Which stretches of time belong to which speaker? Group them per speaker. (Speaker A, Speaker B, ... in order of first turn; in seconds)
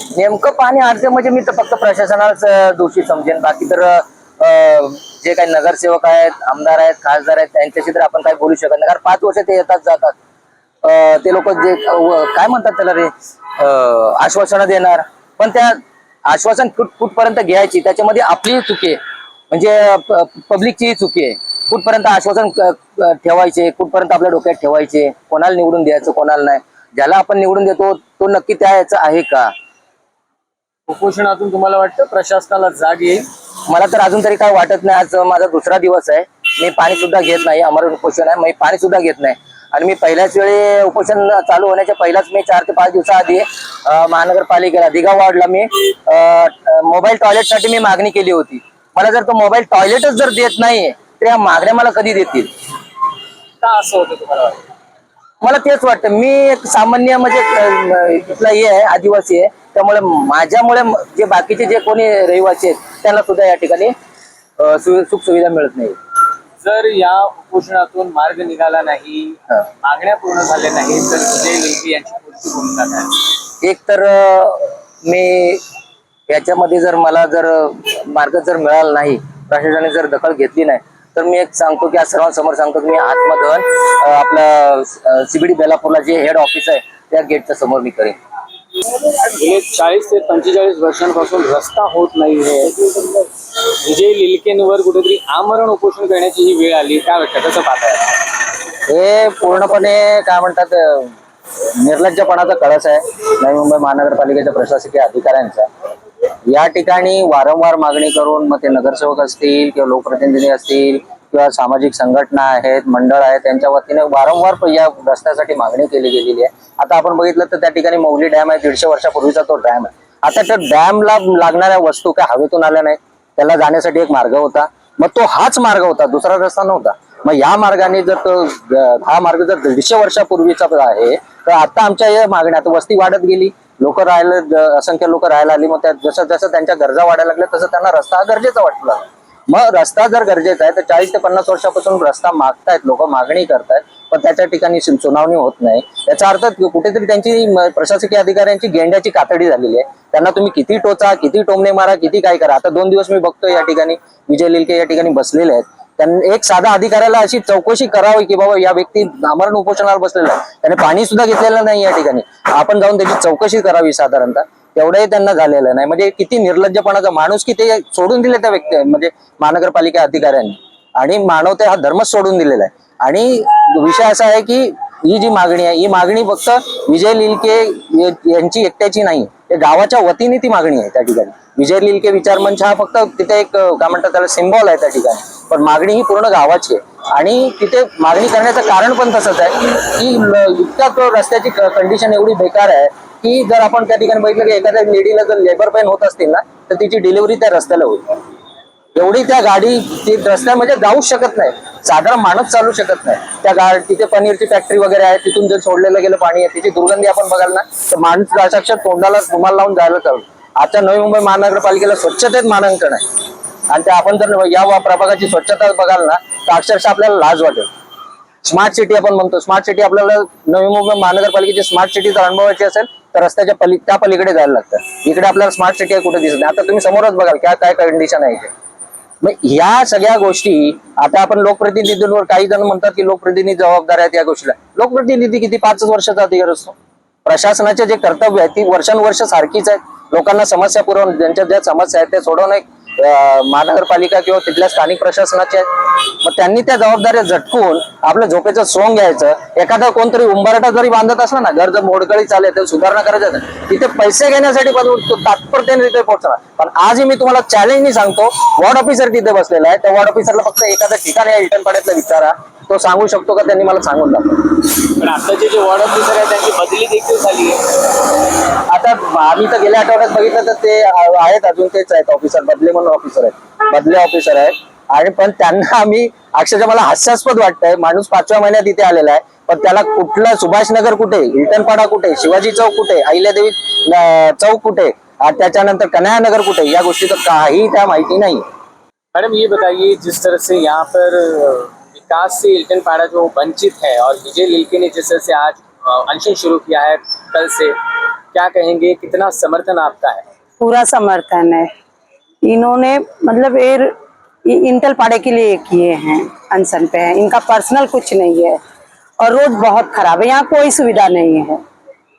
Speaker A: 0.1-10.2, 10.8-19.0, 19.5-29.5, 33.7-52.5, 55.4-63.9, 64.6-66.0, 73.6-75.6, 76.3-88.2, 98.9-101.1, 101.8-105.7, 106.5-198.0, 198.9-213.0, 213.7-217.7, 218.4-228.5, 229.2-264.6, 268.7-288.4
Speaker B: 30.9-33.3, 53.6-54.6, 66.6-73.3, 88.9-98.2, 264.8-268.0, 289.1-297.8, 298.3-300.2
Speaker C: 300.6-301.7, 302.4-303.9, 304.5-308.6, 309.2-311.6